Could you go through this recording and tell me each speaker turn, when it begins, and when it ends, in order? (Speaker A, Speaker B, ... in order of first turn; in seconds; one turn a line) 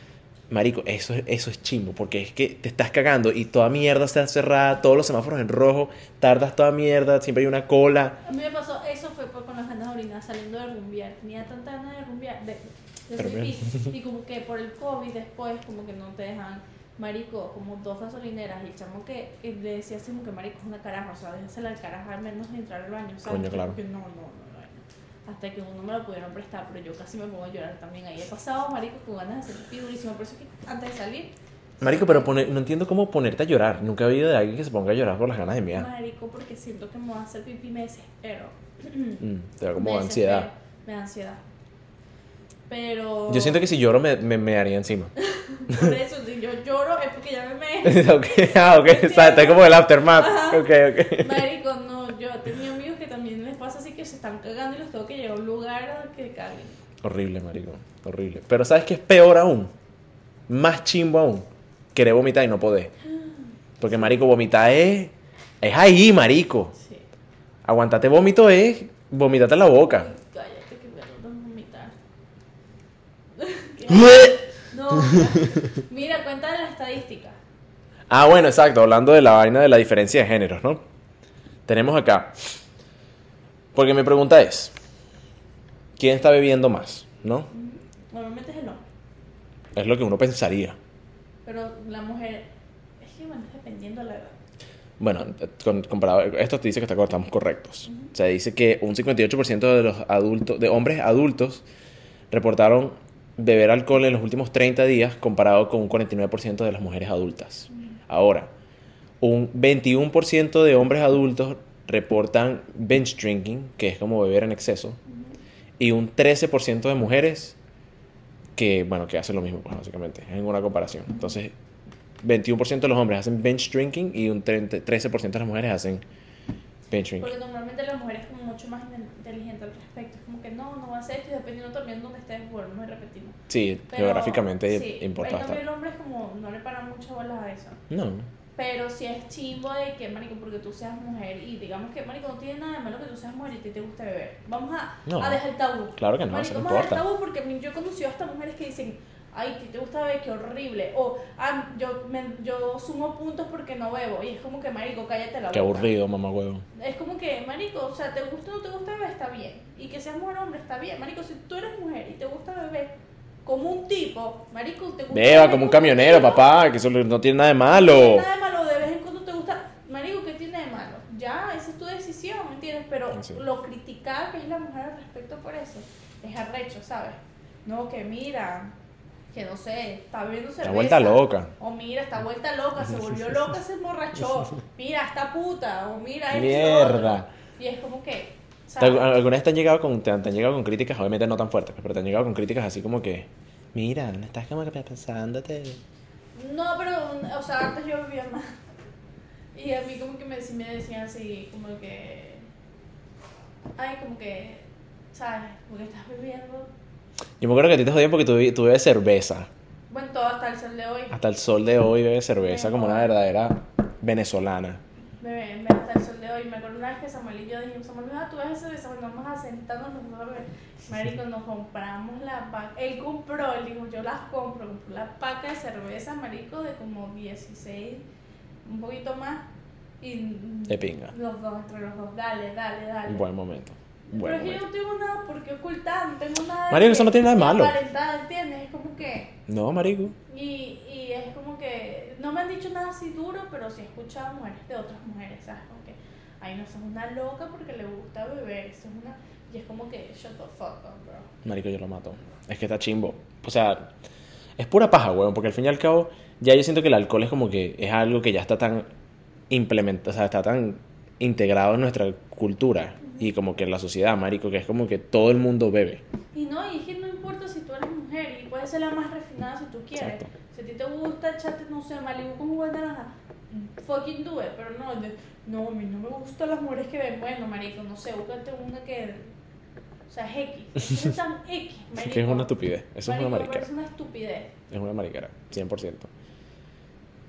Speaker A: 0.5-8.2
Speaker B: 8.2-32.5
Speaker A: 13.2-13.9
Speaker A: 23.2-23.8
Speaker A: 31.8-35.9
Speaker B: 35.7-39.2
Speaker A: 39.2-40.5
Speaker B: 39.8-41.4
Speaker B: 42.7-43.6
Speaker A: 43.3-45.1
Speaker B: 45.2-56.8
Speaker A: 45.7-45.9
Speaker A: 47.8-51.4
Speaker A: 57.0-59.7
Speaker A: 60.5-62.9
Speaker B: 63.0-64.2
Speaker A: 63.8-66.7
Speaker B: 66.7-67.0
Speaker A: 67.6-70.1
Speaker B: 69.8-72.0
Speaker B: 73.4-77.4
Speaker A: 73.9-74.4
Speaker A: 78.1-80.8
Speaker A: 81.7-82.3
Speaker A: 83.7-84.7
Speaker A: 86.0-87.5
Speaker B: 87.5-88.8
Speaker A: 89.7-90.8
Speaker B: 91.4-92.5
Speaker B: 93.0-94.3
Speaker A: 95.0-101.6
Speaker A: 102.3-108.5
Speaker A: 109.2-115.0
Speaker B: 115.1-115.4
Speaker A: 115.8-117.6
Speaker A: 118.6-121.5
Speaker A: 122.2-126.0
Speaker A: 126.9-127.3
Speaker B: 127.2-133.4
Speaker A: 133.5-135.6
Speaker B: 133.9-137.8
Speaker A: 137.9-138.3
Speaker B: 138.6-155.9
Speaker A: 145.1-145.4
Speaker A: 145.9-147.0
Speaker A: 155.5-156.6
Speaker B: 156.7-162.9
Speaker B: 163.4-166.5
Speaker A: 165.1-168.3
Speaker B: 167.7-178.7
Speaker A: 173.1-173.4
Speaker B: 179.3-189.1
Speaker A: 180.6-181.5
Speaker A: 186.3-187.3
Speaker A: 188.8-195.8
Speaker B: 196.3-198.6
Speaker B: 199.5-202.4
Speaker B: 203.8-206.7
Speaker A: 207.4-209.5
Speaker B: 209.9-211.2
Speaker A: 211.1-214.8
Speaker B: 212.4-213.2
Speaker B: 215.2-228.0
Speaker B: 228.6-229.5
Speaker B: 230.0-233.2
Speaker A: 230.7-231.1
Speaker A: 233.1-234.6
Speaker B: 234.1-239.3
Speaker A: 236.7-237.7
Speaker A: 239.5-240.2
Speaker B: 240.2-251.3
Speaker A: 251.4-253.9
Speaker A: 254.6-258.9
Speaker A: 259.5-266.0
Speaker B: 266.3-279.3
Speaker A: 270.0-270.3
Speaker B: 280.1-284.5
Speaker A: 282.0-283.6
Speaker A: 284.7-286.1